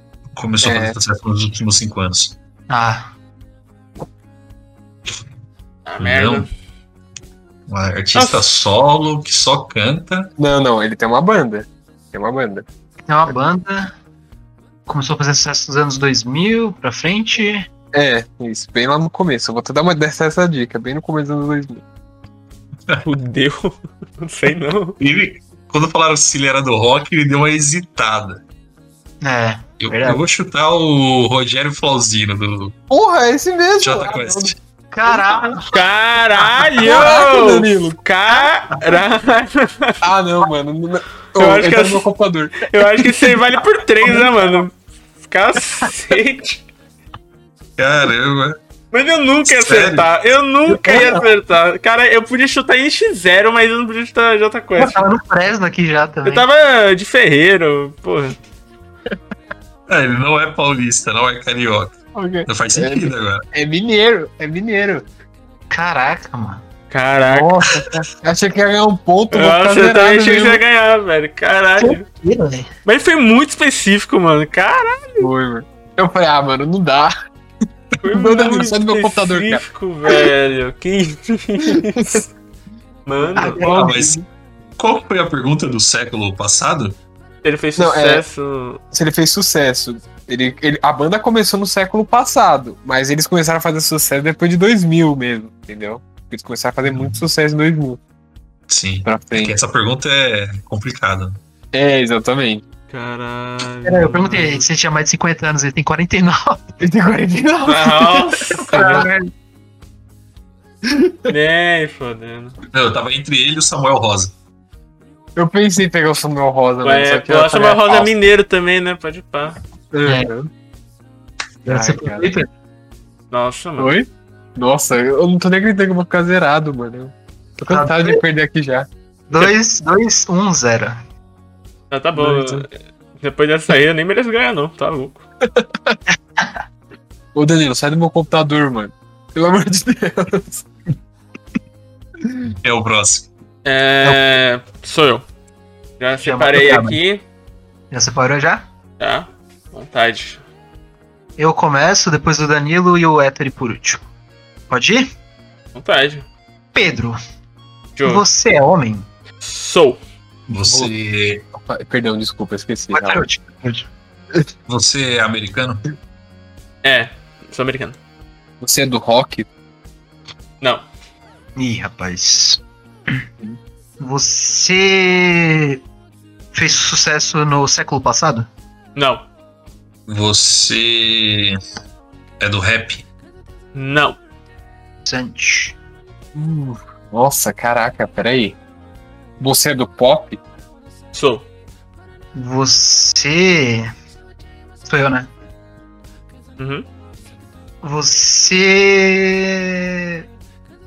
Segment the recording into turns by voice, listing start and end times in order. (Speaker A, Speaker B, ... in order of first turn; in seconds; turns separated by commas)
Speaker A: 0.3-2.3, Speaker B: 0.6-1.0, Speaker C: 2.7-3.1, Speaker D: 5.8-6.5, Speaker A: 6.0-6.5, Speaker A: 7.7-10.3, Speaker D: 8.1-8.4, Speaker B: 10.4-12.6, Speaker C: 13.1-13.9, Speaker C: 14.9-17.7, Speaker B: 17.9-21.8, Speaker D: 23.0-25.0, Speaker A: 25.0-28.4, Speaker C: 29.2-30.2, Speaker A: 29.8-32.7, Speaker B: 32.9-34.5, Speaker A: 33.8-34.5, Speaker C: 34.9-35.6, Speaker B: 35.0-35.5, Speaker D: 35.7-40.0, Speaker B: 36.7-38.0, Speaker B: 40.0-43.3, Speaker D: 41.4-42.1, Speaker D: 42.6-46.6, Speaker A: 47.8-48.6, Speaker D: 48.9-55.1, Speaker A: 49.5-50.1, Speaker C: 50.9-51.1, Speaker C: 54.8-56.5, Speaker D: 56.2-58.4, Speaker A: 59.9-63.4, Speaker B: 62.1-65.0, Speaker C: 65.7-66.6, Speaker D: 66.9-67.5, Speaker B: 67.2-70.6, Speaker D: 69.3-72.0, Speaker C: 71.8-72.7, Speaker D: 72.8-75.3, Speaker B: 75.2-77.1, Speaker D: 78.0-82.2, Speaker B: 78.1-79.6, Speaker B: 81.7-82.2, Speaker D: 83.0-83.6, Speaker B: 83.3-84.2, Speaker C: 83.4-83.8, Speaker A: 83.6-84.2, Speaker A: 84.8-87.0, Speaker D: 87.4-88.8, Speaker B: 87.8-88.2, Speaker B: 88.9-98.0, Speaker A: 96.8-97.2, Speaker A: 98.7-101.4, Speaker B: 99.0-99.6, Speaker B: 101.7-102.6, Speaker D: 102.9-104.7, Speaker C: 103.8-106.8, Speaker B: 106.8-109.1, Speaker D: 107.7-108.6, Speaker C: 108.7-109.3, Speaker B: 110.9-111.3, Speaker D: 111.3-112.5, Speaker A: 112.7-114.3, Speaker B: 115.3-118.1, Speaker D: 116.8-119.6, Speaker B: 119.9-120.5, Speaker B: 121.7-122.3, Speaker C: 121.7-122.5, Speaker D: 123.3-123.9, Speaker B: 123.8-128.9, Speaker C: 127.7-128.2, Speaker C: 129.3-131.0, Speaker D: 131.9-135.2, Speaker B: 132.2-132.7, Speaker B: 135.4-136.0, Speaker B: 137.3-140.7, Speaker A: 142.6-143.3, Speaker D: 143.6-145.2, Speaker D: 146.0-147.2, Speaker C: 146.2-147.0, Speaker C: 147.9-148.6, Speaker D: 149.0-150.4, Speaker C: 151.4-154.0, Speaker C: 154.7-155.1, Speaker D: 155.7-156.2, Speaker C: 156.7-157.2, Speaker D: 157.9-158.2, Speaker C: 158.0-159.1, Speaker D: 159.4-160.0, Speaker A: 160.5-161.4, Speaker B: 160.6-160.9, Speaker B: 161.6-163.3, Speaker C: 162.9-163.9, Speaker A: 164.7-165.8, Speaker D: 166.8-168.0, Speaker B: 168.6-169.5, Speaker C: 171.6-172.6, Speaker C: 174.0-175.8, Speaker C: 176.5-178.5, Speaker D: 178.9-179.2, Speaker A: 180.1-181.6, Speaker A: 182.4-183.0, Speaker D: 183.7-184.2, Speaker C: 185.0-185.7, Speaker B: 186.3-188.6, Speaker B: 189.4-190.4, Speaker D: 191.1-191.4, Speaker C: 192.3-193.9, Speaker C: 194.8-195.3, Speaker D: 196.6-196.8, Speaker C: 197.8-200.2